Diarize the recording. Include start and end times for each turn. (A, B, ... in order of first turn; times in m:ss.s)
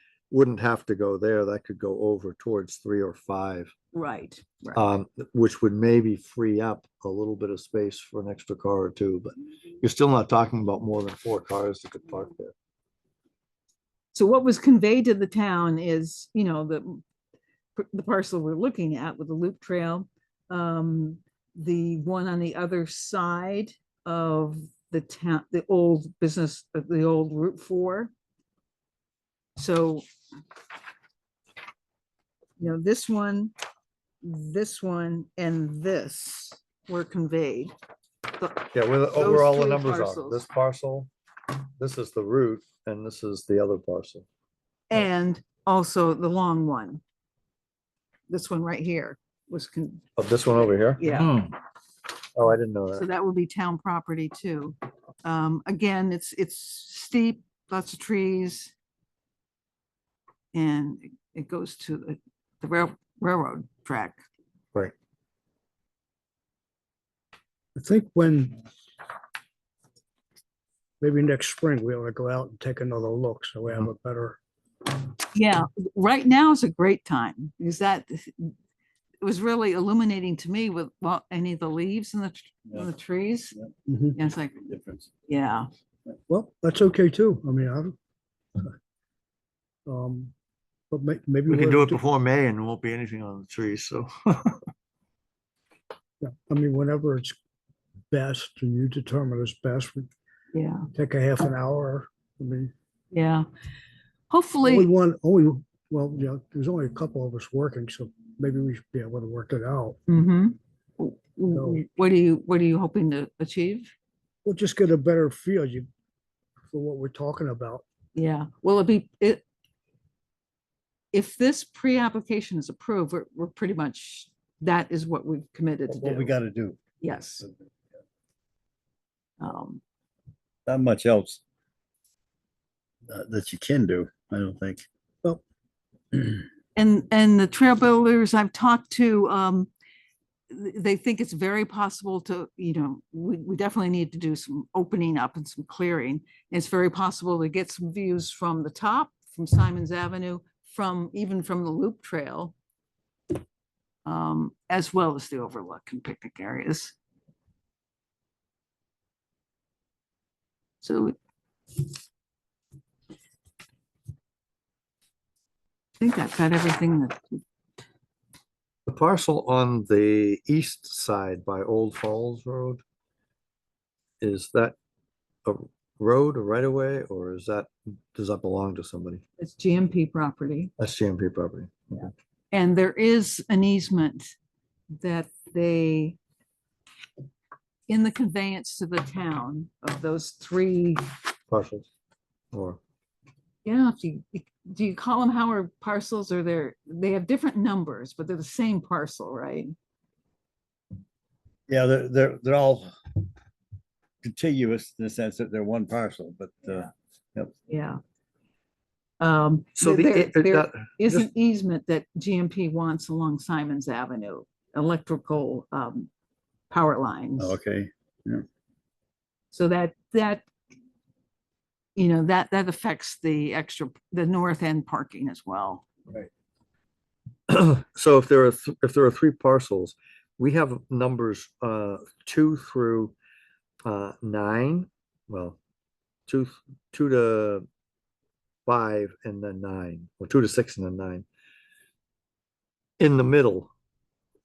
0:00.3-0:03.7 A
0:03.9-0:04.8 B
0:04.7-0:12.5 A
0:14.1-0:17.0 B
0:17.8-0:28.1 B
0:29.6-0:30.0 B
0:32.6-0:33.5 B
0:34.2-0:37.7 B
0:38.3-0:40.5 B
0:38.7-0:41.1 A
0:41.8-0:44.2 A
0:44.9-0:47.0 B
0:48.3-0:50.1 B
0:50.2-0:51.1 A
0:51.0-0:51.5 B
0:52.3-0:53.1 A
0:52.9-0:58.7 B
1:00.5-1:04.2 B
1:07.8-1:08.6 C
1:11.0-1:14.4 C
1:15.3-1:18.5 B
1:19.2-1:23.6 B
1:23.9-1:24.2 C
1:24.1-1:24.7 B
1:24.7-1:25.1 D
1:25.2-1:25.7 B
1:26.3-1:28.0 C
1:29.8-1:30.3 C
1:30.9-1:32.0 C
1:31.5-1:34.6 A
1:36.2-1:37.4 C
1:38.1-1:40.1 C
1:40.5-1:40.9 B
1:40.9-1:42.7 C
1:43.1-1:43.5 B
1:44.3-1:44.9 B
1:44.6-1:50.0 C
1:50.1-1:53.9 B
1:51.5-1:51.8 C
1:54.4-1:55.9 C
1:56.7-1:57.8 C
1:58.1-1:59.4 B
2:01.1-2:06.3 B
2:05.9-2:06.8 D
2:07.0-2:07.4 B
2:09.4-2:09.8 B
2:10.7-2:11.4 D
2:13.1-2:14.9 D
2:16.8-2:19.7 B
2:20.5-2:32.5 B
2:34.0-2:36.9 B
2:40.8-2:41.2 B
2:46.0-2:47.4 B
2:48.9-2:52.8 A
2:54.2-2:54.7 A
2:55.4-2:59.2 A
2:59.4-3:00.7 B
3:00.8-3:02.1 A
3:02.5-3:04.3 B
3:04.9-3:06.2 B
3:07.9-3:11.1 B
3:11.5-3:11.8 A
3:12.5-3:12.8 A
3:13.6-3:19.7 B
3:21.7-3:22.9 D
3:24.2-3:27.5 D
3:27.7-3:28.0 B
3:29.2-3:36.1 B
3:29.8-3:31.2 A
3:36.7-3:37.6 B
3:37.4-3:38.4 D
3:39.5-3:40.4 B
3:42.0-3:45.9 B
3:47.5-3:53.1 A
3:53.8-3:55.6 A
3:56.3-3:57.6 A
3:58.6-4:01.2 A
4:03.0-4:03.7 A